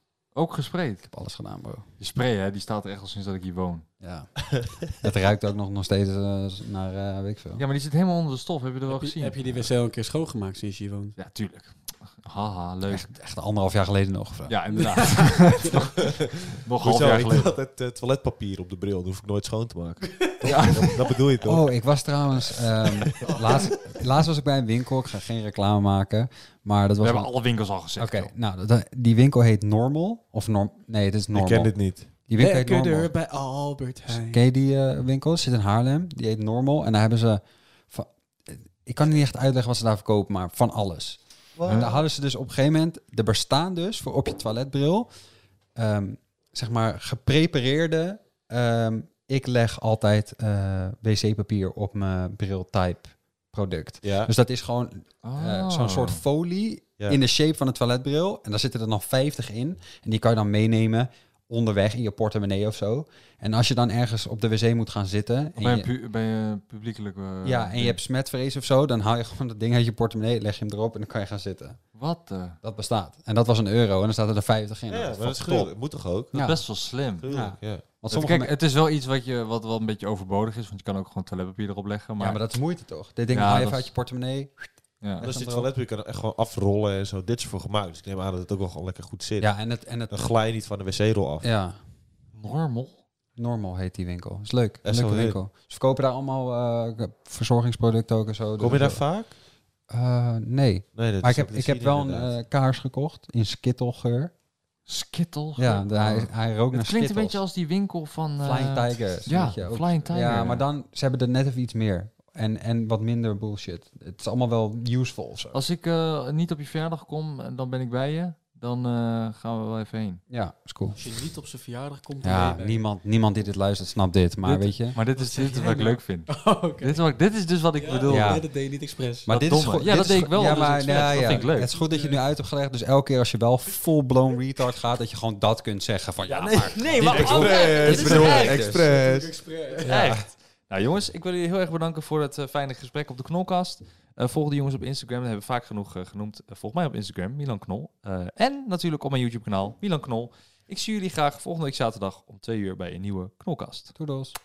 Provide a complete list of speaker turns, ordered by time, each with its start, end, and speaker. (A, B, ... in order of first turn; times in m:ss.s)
0:00.3-0:01.1 A
0:01.1-0:01.9 B
0:02.0-0:03.9 A
0:04.0-0:07.6 B
0:07.6-0:09.6 A
0:08.9-0:11.2 C
0:11.2-0:13.1 A
0:12.9-0:15.2 B
0:14.5-0:17.6 A
0:14.7-0:15.8 C
0:16.8-0:21.7 D
0:20.4-0:20.9 A
0:21.4-0:27.3 B
0:23.2-0:23.7 C
0:27.0-0:28.3 A
0:28.0-0:33.1 B
0:31.3-0:32.1 D
0:32.4-0:34.4 C
0:34.1-0:45.2 B
0:41.6-0:42.0 D
0:41.7-0:42.0 A
0:45.8-1:05.9 B
0:54.0-0:54.3 D
0:55.2-0:56.2 A
1:05.6-1:08.0 A
1:07.4-1:11.8 B
1:11.9-1:12.6 A
1:12.6-1:15.8 B
1:14.9-1:16.4 D
1:16.3-1:16.6 B
1:16.3-1:17.2 A
1:17.2-1:17.8 D
1:17.3-1:18.5 B
1:18.1-1:22.4 A
1:22.2-1:25.7 B
1:23.3-1:23.9 A
1:25.0-1:25.3 A
1:25.2-1:31.5 D
1:29.4-1:30.3 B
1:31.4-1:31.8 B
1:32.3-1:33.0 A
1:33.4-1:39.0 B
1:34.8-1:35.4 D
1:38.6-1:39.3 D
1:39.9-1:44.3 B
1:40.9-1:42.4 D
1:44.9-1:50.7 A
1:45.6-1:47.4 B
1:48.4-1:55.6 B
1:55.5-2:00.2 A
2:00.3-2:01.0 B
2:01.0-2:02.8 C
2:02.2-2:05.0 B
2:04.4-2:08.5 A
2:05.1-2:07.0 C
2:07.8-2:09.3 C
2:08.1-2:08.5 B
2:09.3-2:18.8 B
2:09.3-2:11.7 A
2:09.8-2:12.2 C
2:16.2-2:18.6 A
2:17.0-2:19.4 D
2:17.1-2:20.0 C
2:19.8-2:34.0 A
2:19.8-2:20.3 B
2:34.0-2:34.4 B